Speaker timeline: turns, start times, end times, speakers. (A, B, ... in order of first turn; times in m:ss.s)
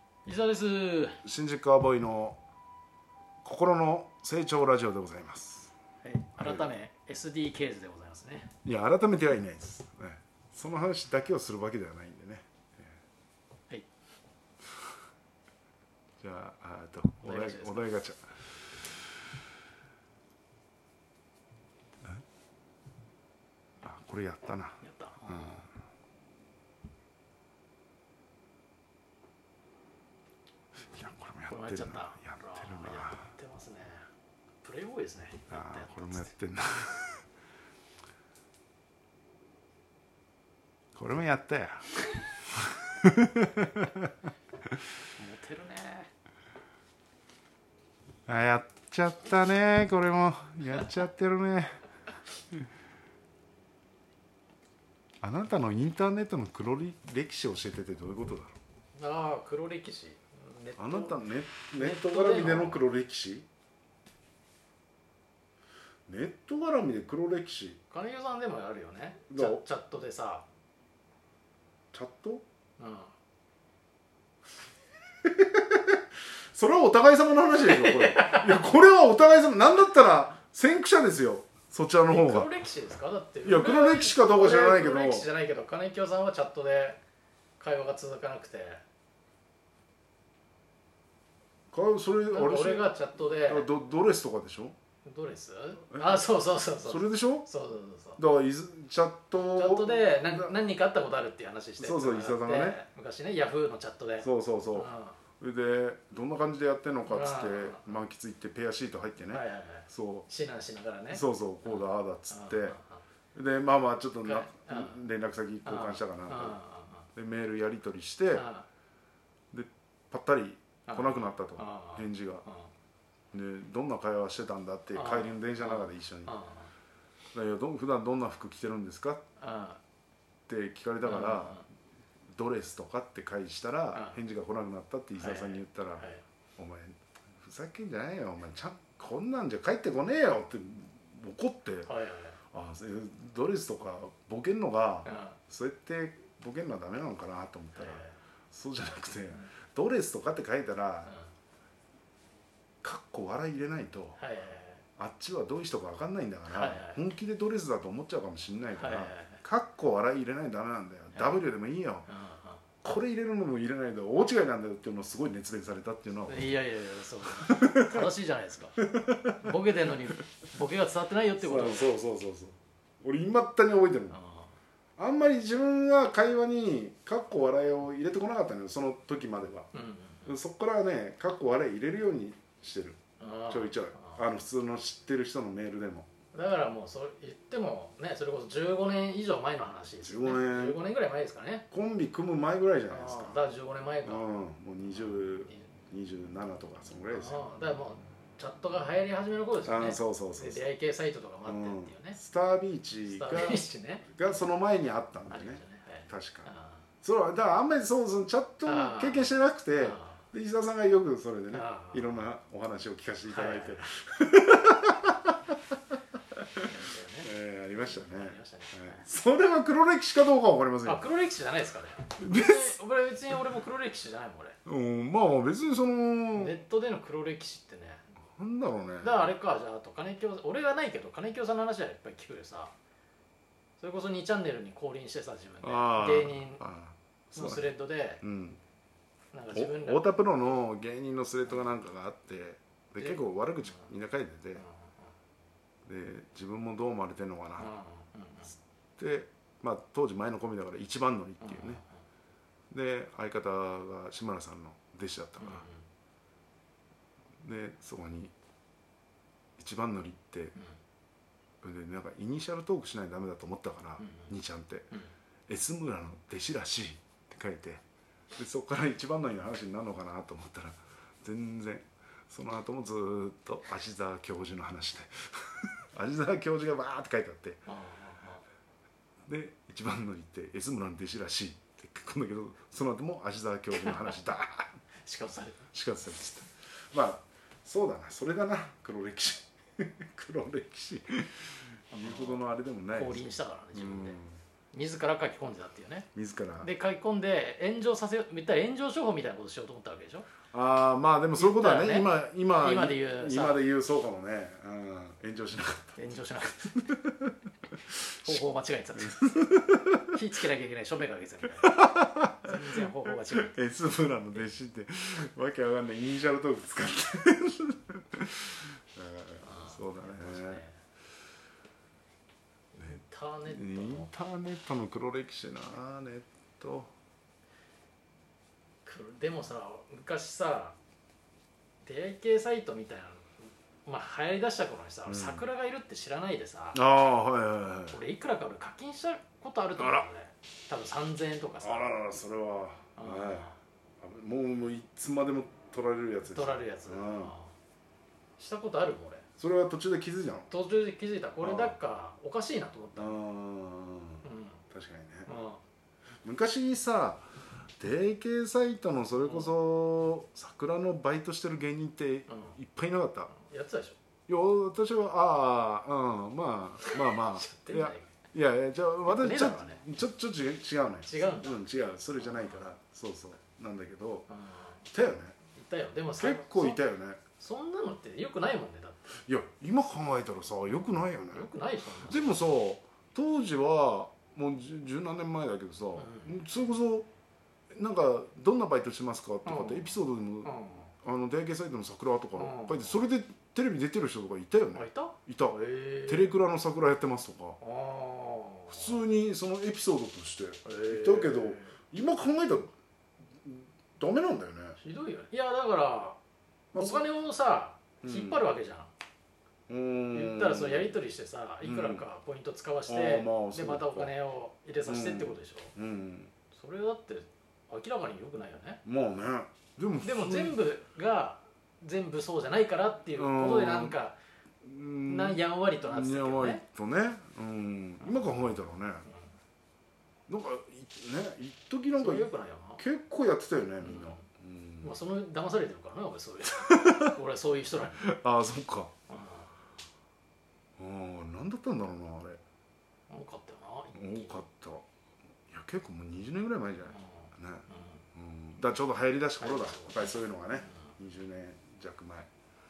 0:00.2-0:01.2 A
0:01.2-0:02.4 B
0:03.4-0:05.7 B
0:06.0-0:08.5 A
0:06.4-0:06.7 B
0:08.6-0:13.0 B
0:16.2-0:18.6 B
0:17.2-0:17.9 A
0:23.8-0:25.7 B
0:24.8-0:25.6 A
0:30.9-0:33.3 B
0:31.5-0:34.0 A
0:34.6-0:36.3 A
0:35.5-0:37.2 B
0:41.0-0:41.9 B
0:42.5-0:44.1 B
0:45.2-0:46.1 A
0:48.3-0:51.8 B
0:50.7-0:51.0 A
0:55.2-0:58.6 B
0:58.9-1:01.2 A
1:00.8-1:03.4 B
1:01.8-1:02.8 A
1:06.1-1:07.8 B
1:07.9-1:10.4 A
1:09.3-1:09.6 B
1:11.9-1:12.4 B
1:12.8-1:13.1 A
1:15.2-1:16.0 B
1:16.5-1:22.5 B
1:17.6-1:18.6 A
1:22.1-1:27.0 A
1:23.4-1:25.3 B
1:27.6-1:28.8 A
1:31.7-1:34.7 B
1:32.3-1:33.7 A
1:35.0-1:38.2 A
1:35.9-1:37.5 B
1:38.2-1:40.5 B
1:39.4-1:45.2 A
1:41.8-1:42.8 B
1:44.2-1:50.3 B
1:47.0-1:47.9 A
1:49.3-1:53.0 A
1:51.1-1:52.8 B
1:53.3-1:56.6 B
1:54.2-1:55.0 A
1:55.6-1:57.1 A
1:57.1-1:58.5 B
1:58.3-1:58.7 A
1:59.5-2:02.4 B
2:00.9-2:02.7 A
2:03.3-2:06.3 B
2:04.9-2:06.7 A
2:07.3-2:09.2 B
2:09.4-2:09.8 A
2:10.5-2:11.7 B
2:11.0-2:11.6 A
2:12.3-2:16.0 B
2:13.9-2:14.2 A
2:15.2-2:16.2 A
2:16.6-2:21.9 B
2:21.9-2:22.4 A
2:22.5-2:31.2 B
2:25.0-2:25.4 A
2:27.8-2:28.2 A
2:32.8-2:34.2 B
2:34.2-2:34.8 A
2:35.0-2:42.1 B
2:36.5-2:37.0 A
2:38.8-2:39.4 A
2:42.1-2:42.6 A
2:42.8-2:46.6 B
2:46.3-2:48.8 A
2:47.2-2:48.1 B
2:48.8-2:50.2 B
2:49.4-2:51.9 A
2:51.4-2:54.2 B
2:54.1-2:54.5 A
2:55.0-2:59.7 B
2:59.7-3:00.3 A
3:00.2-3:06.1 B
3:03.2-3:04.2 A
3:06.3-3:11.7 A
3:10.0-3:10.8 B
3:11.7-3:13.4 B
3:12.9-3:14.3 A
3:14.0-3:17.5 B
3:14.9-3:15.6 A
3:17.1-3:22.2 A
3:19.6-3:20.6 B
3:21.4-3:26.5 B
3:23.1-3:24.4 A
3:25.3-3:26.8 A
3:27.0-3:35.5 B
3:28.6-3:30.2 A
3:31.5-3:32.2 A
3:33.3-3:33.8 A
3:36.4-3:36.6 B
3:36.6-3:37.3 A
3:37.2-3:41.0 B
3:37.8-3:39.0 A
3:40.8-3:44.6 A
3:42.2-3:42.8 B
3:44.6-3:46.6 B
3:46.3-3:48.0 A
3:48.4-3:49.3 B
3:49.0-3:52.7 A
3:53.8-3:56.6 A
3:55.6-3:58.6 B
3:57.3-3:58.2 A
3:59.3-4:00.2 A
3:59.5-4:04.6 B
4:05.8-4:07.7 B
4:07.6-4:08.5 A
4:09.0-4:11.8 B
4:11.4-4:11.8 A
4:12.7-4:15.7 B
4:15.4-4:15.8 A
4:17.4-4:18.3 B
4:19.6-4:20.6 B
4:21.6-4:25.0 B
4:24.0-4:24.3 A
4:25.5-4:27.8 B
4:28.4-4:37.6 B
4:37.7-4:38.4 A
4:39.3-4:44.7 B
4:43.7-4:44.1 A
4:45.0-4:45.6 A
4:45.7-4:54.4 B
4:51.9-4:54.2 A
4:54.7-4:56.1 A
4:56.1-4:56.7 B
4:56.6-5:00.3 A
5:00.5-5:06.1 B
5:01.4-5:03.6 A
5:06.0-5:06.9 A
5:06.8-5:07.3 B
5:07.9-5:08.4 B
5:08.2-5:11.7 A
5:09.0-5:10.1 B
5:11.6-5:20.6 B
5:12.4-5:13.5 A
5:19.4-5:20.8 A
5:22.8-5:24.1 A
5:22.8-5:26.9 B
5:28.8-5:30.8 A
5:31.8-5:33.3 A
5:33.8-5:36.8 A
5:35.1-5:35.4 B
5:36.7-5:38.0 B
5:37.9-5:41.9 A
5:39.8-5:40.1 B
5:41.6-5:43.5 B
5:43.0-5:43.6 A
5:44.0-5:47.3 B
5:46.3-5:47.5 A
5:48.4-5:49.2 A
5:49.4-5:50.5 B
5:50.5-5:53.2 A
5:51.4-5:51.8 B
5:53.0-5:55.3 B
5:54.2-5:54.6 A
5:55.3-5:55.6 A
5:56.2-6:03.3 B
6:02.3-6:02.6 A
6:03.4-6:04.0 A
6:04.3-6:14.3 B
6:06.8-6:08.1 A
6:09.1-6:09.8 A
6:11.0-6:12.6 A
6:14.3-6:14.8 A
6:14.8-6:15.4 B
6:15.5-6:16.8 A
6:16.2-6:17.2 B
6:17.4-6:19.1 A
6:19.1-6:21.5 B
6:21.3-6:22.5 A
6:22.0-6:27.1 B
6:26.0-6:26.4 A
6:27.7-6:37.6 B
6:29.4-6:30.9 A
6:32.4-6:33.0 A
6:34.7-6:36.3 A
6:37.6-6:39.0 A
6:38.7-6:42.7 B
6:40.6-6:41.7 A
6:43.4-6:44.8 B
6:44.8-6:46.2 A
6:46.7-6:47.0 B
6:46.7-6:48.9 A
6:48.0-6:48.4 B
6:49.7-6:51.0 B
6:50.1-6:55.7 A
6:51.6-6:52.1 B
6:52.9-6:54.1 B
6:54.8-6:56.3 B
6:56.5-6:58.8 A
6:58.8-7:00.6 B
7:00.0-7:04.2 A
7:03.1-7:04.0 B
7:04.6-7:09.0 B
7:05.0-7:06.6 A
7:08.0-7:08.5 A
7:10.3-7:15.0 B
7:12.0-7:12.8 A
7:13.8-7:14.2 A
7:14.8-7:18.1 A
7:16.7-7:17.1 B
7:18.0-7:18.9 B
7:19.1-7:19.5 A
7:20.8-7:22.4 B
7:23.1-7:24.4 A
7:23.9-7:24.9 B
7:25.5-7:32.3 B
7:26.9-7:28.0 A
7:29.4-7:30.7 A